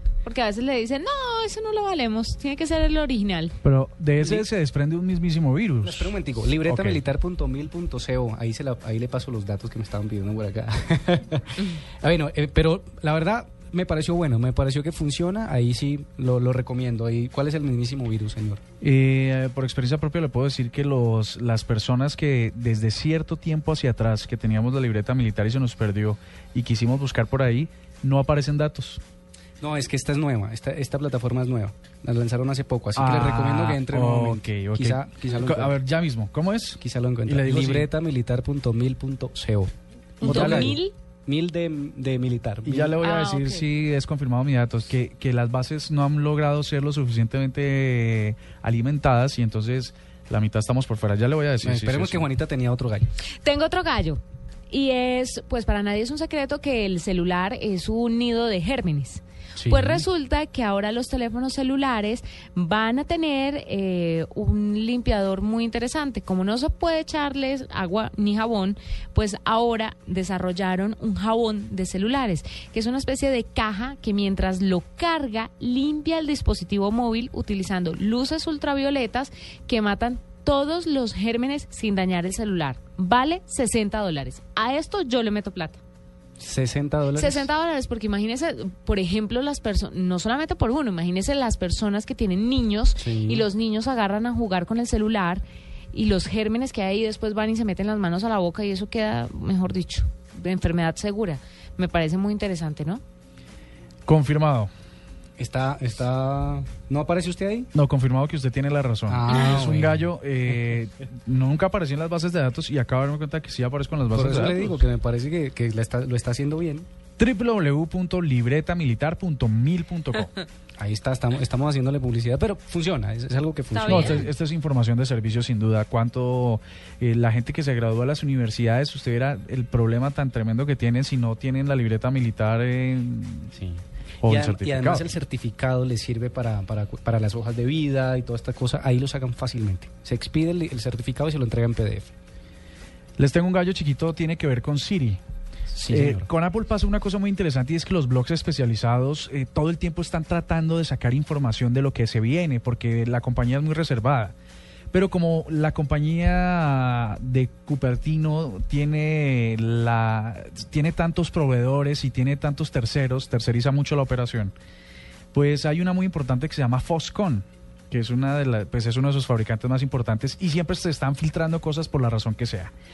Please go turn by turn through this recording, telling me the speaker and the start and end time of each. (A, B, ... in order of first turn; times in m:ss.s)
0:00.2-0:03.6 A
0:03.6-0:06.1 B
0:04.2-0:04.4 C
0:05.8-0:18.6 C
0:06.6-0:07.0 B
0:18.8-0:29.0 B
0:29.6-0:35.8 C
0:32.9-0:37.9 B
0:36.8-0:43.0 C
0:40.2-0:40.9 A
0:40.2-0:40.8 B
0:42.6-0:52.2 B
0:43.0-0:43.6 A
0:51.6-0:53.1 C
0:53.4-1:25.8 A
0:59.6-1:00.0 C
1:26.4-1:27.5 C
1:27.2-1:43.0 A
1:33.0-1:33.4 C
1:44.0-1:44.7 B
1:45.4-1:47.7 C
1:47.7-1:54.8 B
1:49.1-1:50.1 C
1:54.1-1:56.9 C
1:57.2-2:00.3 B
2:00.8-2:04.3 C
2:03.7-2:04.2 A
2:03.9-2:13.5 B
2:13.5-2:22.1 C
2:14.2-2:15.1 B
2:23.2-2:25.2 B
2:25.7-2:26.2 C
2:25.9-2:34.3 B
2:34.9-2:44.5 B
2:45.3-2:52.7 B